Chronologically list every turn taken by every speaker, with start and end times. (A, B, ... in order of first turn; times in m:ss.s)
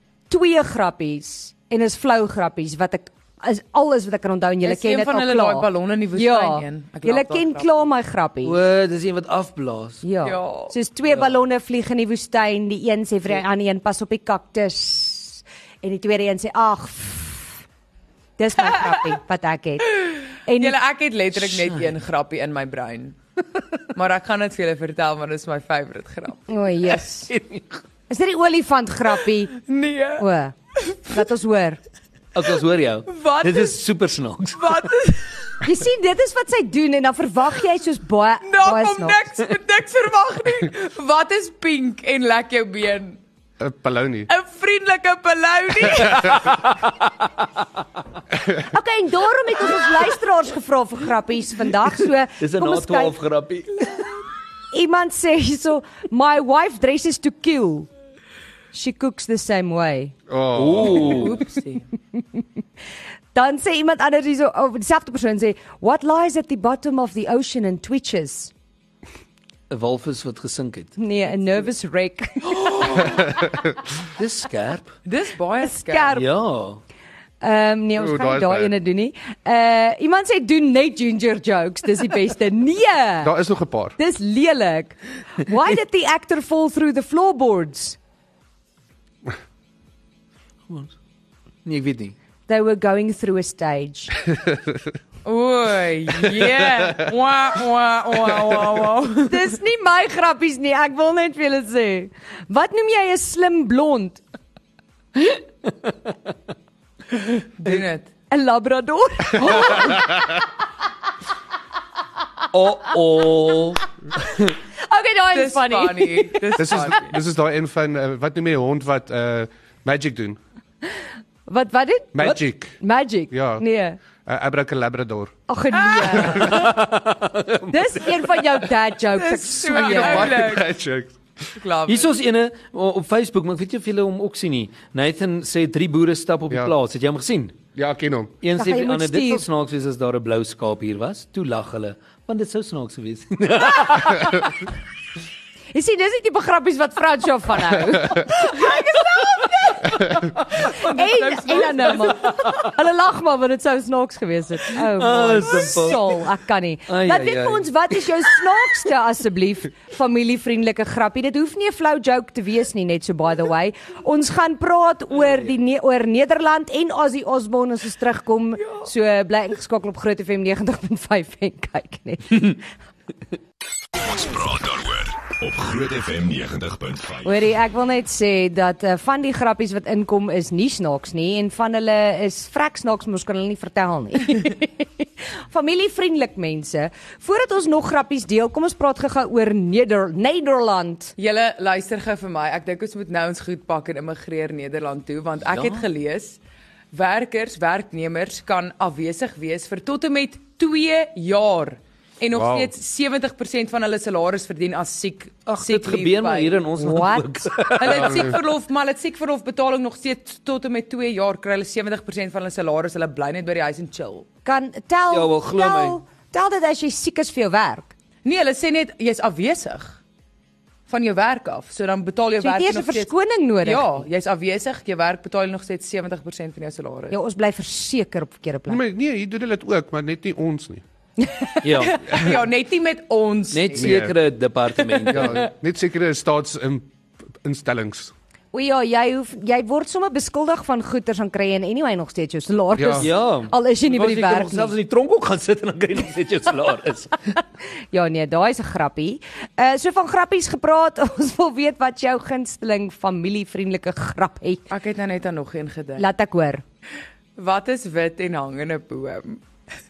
0:00.3-0:08.6 A
0:04.6-0:07.9 B
0:08.4-0:10.0 C
0:10.0-0:17.5 A
0:10.2-0:10.8 B
0:18.4-0:20.8 A
0:19.9-0:23.2 B
0:21.5-0:21.9 C
0:23.9-0:26.4 B
0:26.5-0:27.3 A
0:26.9-0:27.8 C
0:28.1-0:29.6 A
0:29.6-0:30.2 B
0:30.2-0:30.5 A
0:30.9-0:31.2 B
0:31.0-0:31.8 A
0:32.3-0:34.9 C
0:33.1-0:33.8 B
0:34.5-0:35.6 B
0:35.6-0:39.2 A
0:38.4-0:43.2 B
0:43.6-0:44.3 D
0:44.3-0:46.6 B
0:46.4-0:47.0 C
0:48.7-0:53.2 A
0:52.4-0:53.8 C
0:54.7-0:57.9 A
0:58.7-1:00.1 A
1:00.3-1:01.4 D
1:00.5-1:01.4 C
1:00.8-1:01.8 B
1:03.3-1:08.5 A
1:09.7-1:11.0 C
1:11.0-1:13.3 A
1:12.6-1:13.2 C
1:13.2-1:13.7 D
1:14.0-1:14.9 C
1:15.0-1:16.2 B
1:15.6-1:16.3 A
1:16.1-1:16.8 C
1:17.4-1:23.3 A
1:18.0-1:18.7 D
1:23.2-1:24.0 D
1:24.0-1:28.0 A
1:30.7-1:30.9 C
1:31.6-1:32.2 C
1:32.5-1:34.1 A
1:35.2-1:39.5 B
1:39.2-1:44.2 A
1:45.7-1:46.1 C
1:47.6-1:48.1 B
1:48.3-1:50.1 A
1:52.5-1:54.5 C
1:54.8-1:56.7 A
1:55.3-1:57.2 B
1:56.6-2:00.4 D
2:01.5-2:02.2 A
2:02.1-2:02.8 D
2:02.8-2:04.0 A
2:03.3-2:03.6 D
2:04.2-2:05.4 D
2:05.5-2:06.7 A
2:05.7-2:06.6 B
2:06.4-2:08.4 C
2:07.7-2:10.4 A
2:09.2-2:10.7 B
2:09.8-2:11.2 D
2:11.6-2:12.1 B
2:11.9-2:17.6 C
2:17.8-2:18.4 D
2:18.4-2:24.6 C
2:18.6-2:19.4 A
2:25.7-2:52.6 A
2:28.4-2:28.8 B
2:30.6-2:32.4 B
2:32.3-2:32.6 C
2:34.9-2:36.2 C
2:36.9-2:38.2 C
2:54.0-2:57.5 E
2:57.2-3:11.2 A
3:11.2-3:16.4 B
3:15.5-3:15.8 C
3:16.9-3:26.7 B
3:22.3-3:22.7 D
3:25.5-3:28.3 C
3:26.8-3:27.7 A
3:27.8-3:34.3 B
3:27.9-3:28.3 D
3:34.4-3:37.9 A
3:35.1-3:36.0 C
3:38.2-3:40.0 B
3:40.9-3:47.2 B
3:42.4-3:43.9 A
3:47.1-3:48.8 A
3:48.7-3:50.8 D
3:51.2-3:51.6 A
3:51.6-3:52.3 C
3:51.8-3:54.1 B
3:53.5-3:55.5 C
3:53.8-3:54.2 D
3:54.9-3:55.4 B
3:55.1-3:56.9 D
3:57.4-3:58.1 D
3:58.5-4:04.7 A
4:02.8-4:03.1 D
4:03.0-4:07.2 C
4:07.9-4:14.6 A
4:14.7-4:16.1 B
4:16.0-4:16.6 A
4:17.4-4:19.4 B